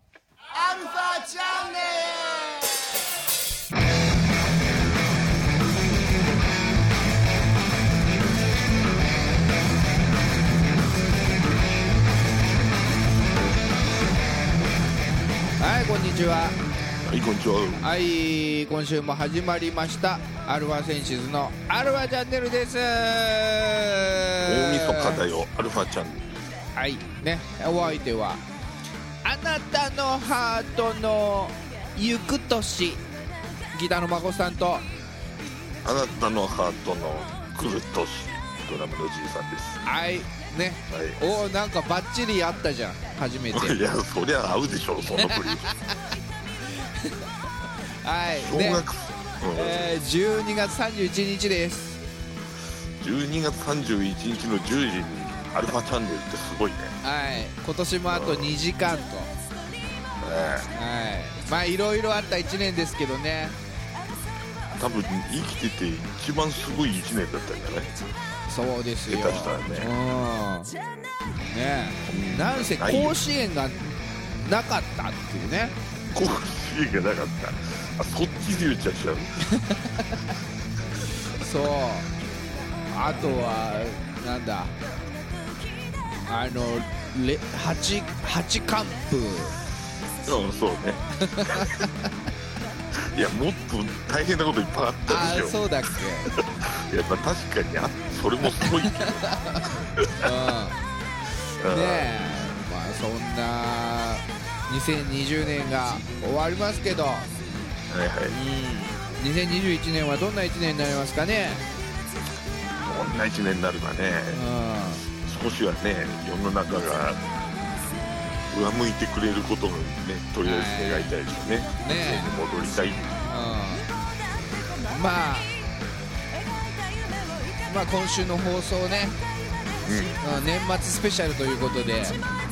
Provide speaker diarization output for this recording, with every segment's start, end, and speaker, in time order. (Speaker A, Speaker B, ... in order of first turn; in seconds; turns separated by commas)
Speaker A: 0.5-2.5, Speaker B: 15.6-16.6, Speaker C: 17.0-17.9, Speaker B: 17.8-25.2, Speaker C: 24.4-26.3, Speaker B: 26.8-28.4, Speaker B: 29.2-33.0, Speaker B: 33.7-34.9, Speaker C: 35.8-39.8, Speaker B: 39.9-43.8, Speaker C: 40.9-41.2, Speaker C: 43.5-45.7, Speaker B: 45.1-45.9, Speaker B: 46.6-47.2, Speaker B: 48.0-48.9, Speaker C: 48.3-49.9, Speaker B: 49.5-52.0, Speaker C: 53.0-56.9, Speaker B: 57.0-59.3, Speaker C: 58.1-58.5, Speaker C: 60.2-60.7, Speaker B: 60.7-63.6, Speaker C: 64.8-67.9, Speaker B: 68.5-70.7, Speaker C: 69.1-69.9, Speaker C: 70.7-71.1, Speaker B: 71.5-75.7, Speaker C: 72.0-73.2, Speaker C: 76.1-79.4, Speaker B: 79.5-80.2, Speaker B: 81.4-82.1, Speaker B: 82.9-84.7, Speaker C: 83.1-83.5, Speaker B: 86.3-89.6, Speaker C: 90.2-91.8, Speaker B: 91.2-92.1, Speaker C: 93.0-95.6, Speaker B: 95.1-96.3, Speaker C: 96.3-99.4, Speaker B: 98.5-99.7, Speaker C: 100.0-100.3, Speaker B: 100.2-100.8, Speaker C: 101.6-102.1, Speaker B: 101.7-107.3, Speaker C: 107.9-108.3, Speaker B: 108.3-111.6, Speaker C: 112.8-114.4, Speaker B: 114.3-115.0, Speaker C: 115.2-117.2, Speaker C: 118.5-123.1, Speaker B: 120.4-121.1, Speaker B: 121.8-122.4, Speaker B: 123.2-123.8, Speaker B: 124.9-125.5, Speaker B: 127.6-129.2, Speaker C: 129.8-130.2, Speaker B: 130.2-132.2